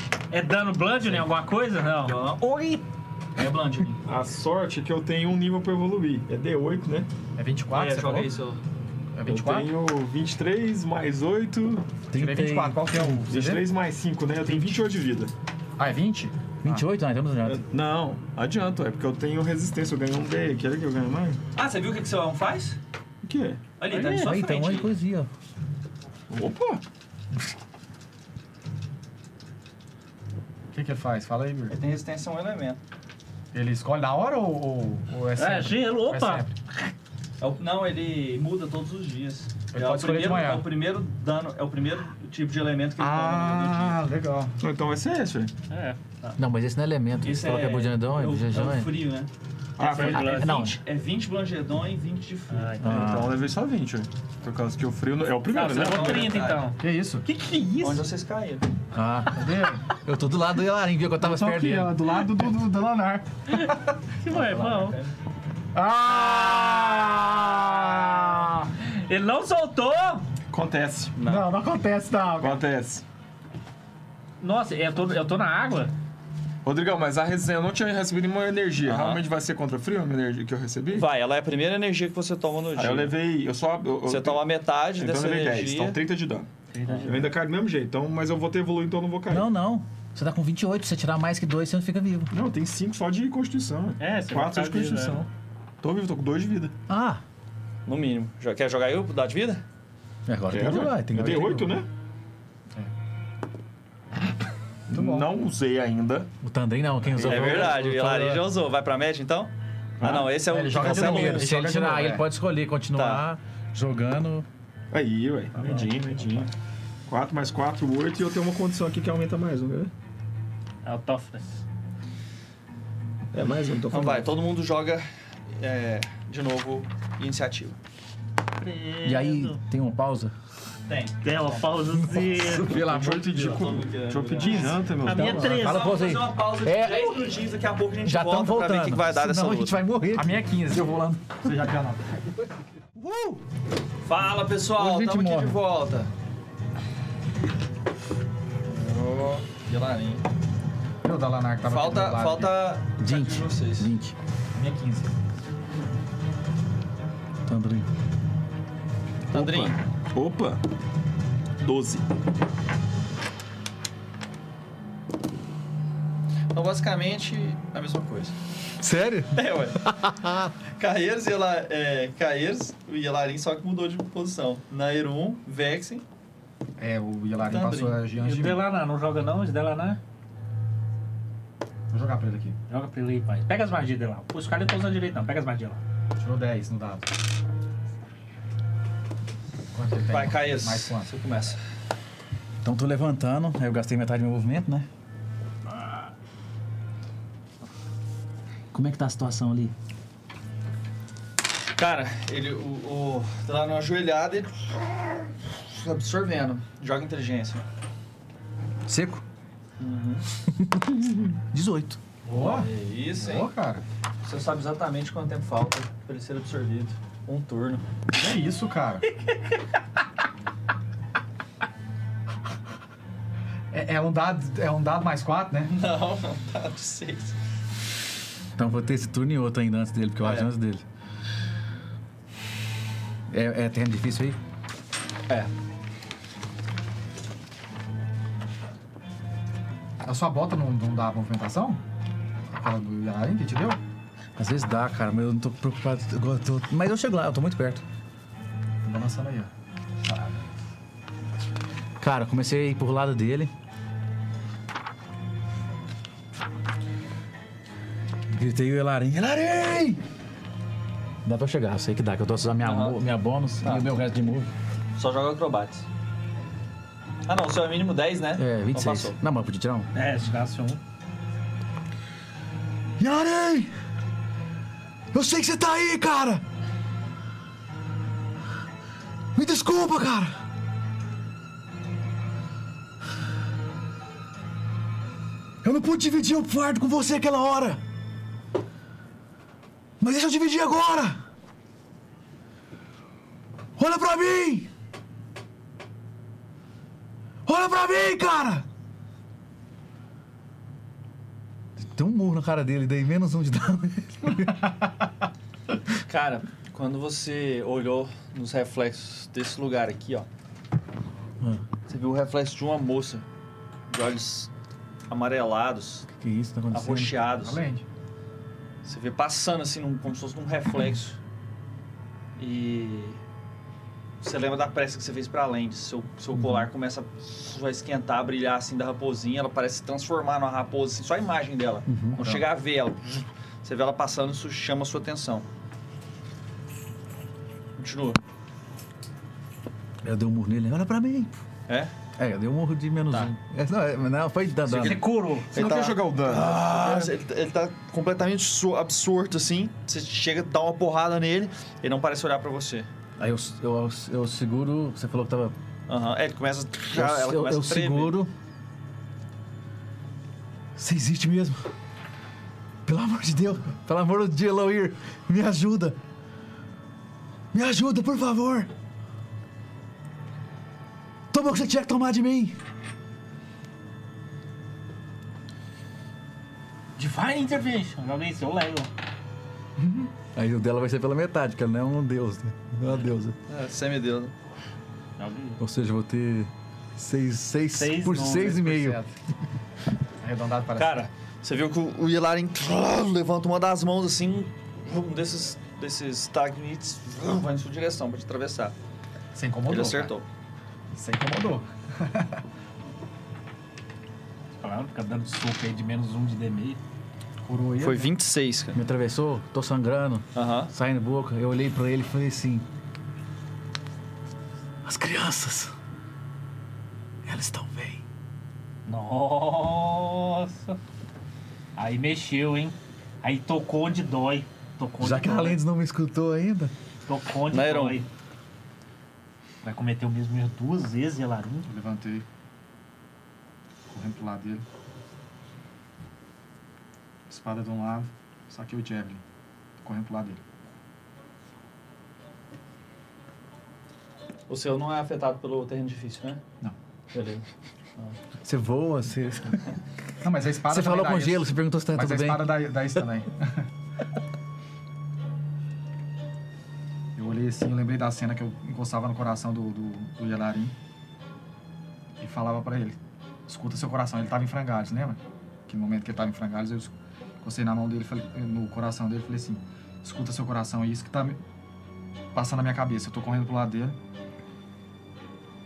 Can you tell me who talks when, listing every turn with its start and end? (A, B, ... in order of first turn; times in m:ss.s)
0:00.3-0:02.2 A
0:02.0-0:02.8 B
0:03.4-0:04.0 B
0:04.0-0:07.1 C
0:07.4-0:08.3 D
0:07.7-0:08.6 B
0:09.2-0:09.7 D
0:09.2-0:12.0 C
0:12.1-0:12.9 E
0:12.1-0:13.6 D
0:12.9-0:15.3 C
0:15.8-0:16.8 D
0:16.6-0:17.6 E
0:17.4-0:21.4 C
0:21.6-0:22.8 B
0:23.2-0:23.6 C
0:23.8-0:24.9 B
0:23.9-0:24.3 A
0:24.2-0:25.3 E
0:26.3-0:26.8 C
0:30.7-0:31.8 D
0:31.7-0:32.8 B
0:33.5-0:36.5 D
0:35.4-0:36.9 A
0:37.4-0:44.0 B
0:39.7-0:40.7 D
0:43.0-0:44.6 D
0:44.6-0:45.5 C
0:45.7-0:46.4 A
0:46.4-0:48.9 E
0:47.2-0:52.9 B
0:49.8-0:50.6 C
0:49.8-0:50.8 A
0:50.4-0:50.7 E
0:52.5-0:53.2 A
0:52.8-0:53.3 E
0:52.8-0:56.5 C
0:55.5-0:58.1 A
0:55.7-0:56.6 B
0:56.8-0:57.2 D
0:57.8-0:58.6 B
0:58.9-1:02.0 E
0:59.3-0:59.8 D
1:01.2-1:04.9 D
1:04.2-1:05.0 A
1:04.8-1:05.1 B
1:05.7-1:08.7 D
1:06.1-1:10.3 A
1:10.5-1:11.2 C
1:11.2-1:11.5 B
1:11.2-1:12.7 D
1:12.4-1:13.0 C
1:14.4-1:15.9 A
1:16.6-1:21.1 C
1:18.8-1:19.2 B
1:20.9-1:23.1 B
1:22.8-1:29.5 C
1:24.1-1:26.0 B
1:26.7-1:27.3 A
1:29.3-1:32.3 E
1:32.3-1:35.3 C
1:34.0-1:35.2 A
1:35.8-1:36.7 C
1:36.9-1:37.2 E
1:37.9-1:39.6 B
1:40.3-1:41.7 E
1:40.5-1:41.9 C
1:44.9-1:46.3 C
1:44.9-1:45.3 D
1:46.4-1:48.4 E
1:47.1-1:47.8 C
1:47.2-1:51.5 B
1:50.0-1:50.3 C
1:50.3-1:52.3 D
1:50.7-1:54.5 E
1:53.0-1:53.2 B
1:54.9-1:56.5 C
1:55.6-1:56.5 A
1:57.1-1:59.9 C
2:00.8-2:01.6 A
2:03.3-2:04.3 C
2:03.4-2:07.8 B
2:08.6-2:09.6 A
2:09.0-2:10.3 E
2:10.9-2:12.0 B
2:11.2-2:12.8 A
2:12.1-2:13.3 E
2:12.4-2:15.6 C
2:13.2-2:14.8 B
2:14.4-2:14.9 D
2:15.0-2:16.0 A
2:15.1-2:17.3 E
2:15.4-2:19.8 B
2:18.0-2:20.4 E
2:20.1-2:22.4 D
2:23.0-2:23.4 E
2:24.0-2:26.1 B
2:24.8-2:25.6 E
2:28.7-2:30.2 B
2:31.0-2:32.5 D
2:31.7-2:33.9 B
2:33.0-2:34.2 E
2:34.6-2:35.1 D
2:37.5-2:37.9 E
2:39.3-2:39.8 B
2:39.3-2:40.6 C
2:41.6-2:42.0 C
2:46.5-2:48.4 B
2:48.8-2:49.3 D
2:49.3-2:49.8 B
2:49.9-2:50.5 E
2:50.8-2:56.0 B
2:56.8-2:58.6 D
2:57.4-2:58.0 B
2:58.2-3:00.0 A
3:01.9-3:02.6 D
3:02.7-3:05.8 A
3:06.2-3:07.1 D
3:09.7-3:11.1 D
3:10.1-3:11.6 B
3:12.6-3:14.9 E
3:18.7-3:19.7 E
3:21.8-3:27.6 B
3:28.9-3:29.2 E
3:29.8-3:30.2 B
3:30.5-3:32.0 E
3:32.3-3:33.8 D
3:32.4-3:33.5 B
3:34.2-3:37.8 B
3:38.1-3:39.1 D
3:43.7-3:45.7 D
3:45.7-3:47.3 B
3:48.6-3:50.8 E
3:50.2-3:50.5 B
3:53.3-3:54.4 E
4:00.0-4:01.8 D
4:02.5-4:03.8 D
4:04.4-4:07.8 E
4:08.8-4:09.5 D
4:10.0-4:10.4 D
4:12.0-4:13.5 E
4:18.3-4:20.0 E
4:21.2-4:24.5 E
4:22.6-4:23.0 B
4:23.6-4:23.9 B
4:25.0-4:25.8 B
4:27.3-4:29.2 B
4:28.4-4:29.9 E
4:29.9-4:30.8 A
4:33.0-4:33.7 E
4:35.1-4:36.4 E
4:39.4-4:40.4 E
4:45.6-4:47.8 E
4:50.0-4:51.2 E
4:53.8-4:54.7 E
4:57.5-4:58.6 E
5:01.8-5:04.7 E
5:06.1-5:10.3 B
5:11.9-5:13.3 B
5:13.9-5:14.5 B
5:15.1-5:16.1 B
5:16.1-5:17.1 E
5:16.7-5:17.6 B
5:17.4-5:17.8 D
5:18.8-5:21.2 B
5:22.4-5:23.2 B
5:24.2-5:35.5 B
5:26.4-5:26.7 E
5:31.9-5:32.4 E
5:37.8-5:38.2 B
5:40.0-5:41.4 E
5:42.2-5:45.0 E
5:44.8-5:45.5 A
5:45.5-5:47.1 C
5:45.5-5:52.9 B
5:53.2-5:55.6 E
5:55.9-5:58.2 B
5:56.9-5:58.3 E
6:00.8-6:01.7 E
6:02.8-6:06.0 E
6:07.5-6:08.7 E
6:11.3-6:12.6 E
6:17.0-6:18.9 A
6:19.8-6:20.1 D
6:20.4-6:23.4 E
6:23.5-6:24.3 B
6:25.2-6:25.6 A
6:25.6-6:29.0 E
6:27.8-6:28.7 A
6:28.4-6:29.1 D
6:30.2-6:31.0 D
6:30.8-6:38.8 B
6:39.3-6:40.1 D
6:39.7-6:40.2 B
6:41.0-6:42.4 D
6:44.6-6:46.8 A
6:47.4-6:48.1 D
6:47.8-6:48.8 B
6:48.7-6:52.7 E
6:50.4-6:50.7 B
6:54.8-6:55.7 E
6:57.2-6:58.0 E
6:58.9-7:00.8 A
7:01.8-7:05.6 A
7:05.0-7:06.7 E
7:07.1-7:08.1 A
7:07.5-7:08.0 B
7:09.6-7:11.7 A
7:11.7-7:12.2 D
7:13.9-7:14.6 D
7:17.3-7:19.2 D
7:19.8-7:20.4 D
7:24.5-7:26.4 B
7:27.1-7:27.5 B
7:28.4-7:29.6 E
7:30.2-7:33.7 D
7:30.6-7:32.6 E
7:37.2-7:40.7 D
7:42.2-7:51.4 D
7:52.3-7:54.0 D